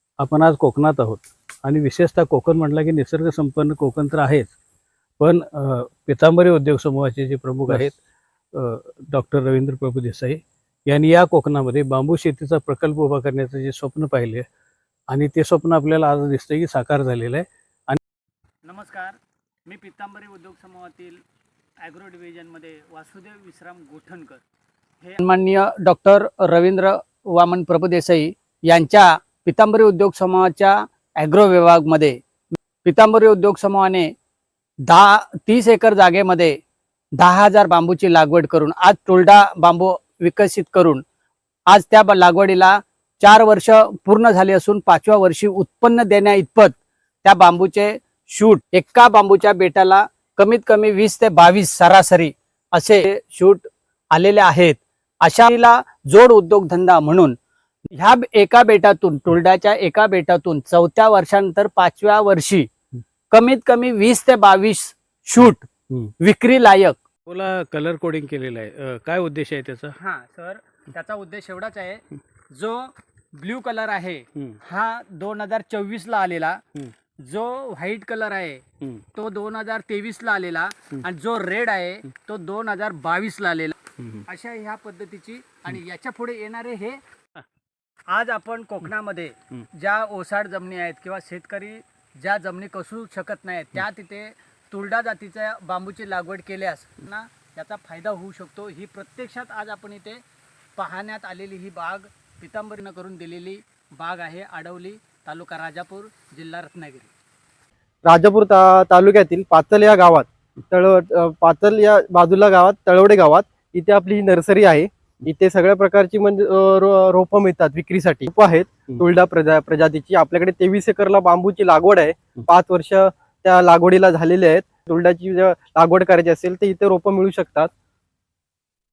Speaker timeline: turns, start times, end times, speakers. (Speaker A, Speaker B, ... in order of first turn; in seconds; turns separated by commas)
Speaker A: 0.2-4.5, Speaker A: 5.2-8.0, Speaker A: 8.5-14.4, Speaker A: 15.1-18.0, Speaker B: 18.6-21.2, Speaker B: 21.8-24.4, Speaker B: 25.0-32.2, Speaker B: 32.8-34.1, Speaker B: 34.9-36.6, Speaker B: 37.2-41.0, Speaker B: 41.7-57.4, Speaker B: 57.9-62.7, Speaker B: 63.3-65.7, Speaker B: 66.2-67.0, Speaker A: 67.3-69.9, Speaker B: 70.0-76.6, Speaker B: 77.2-87.0, Speaker A: 84.0-84.2, Speaker B: 88.1-100.2, Speaker B: 100.8-107.1, Speaker C: 108.0-127.7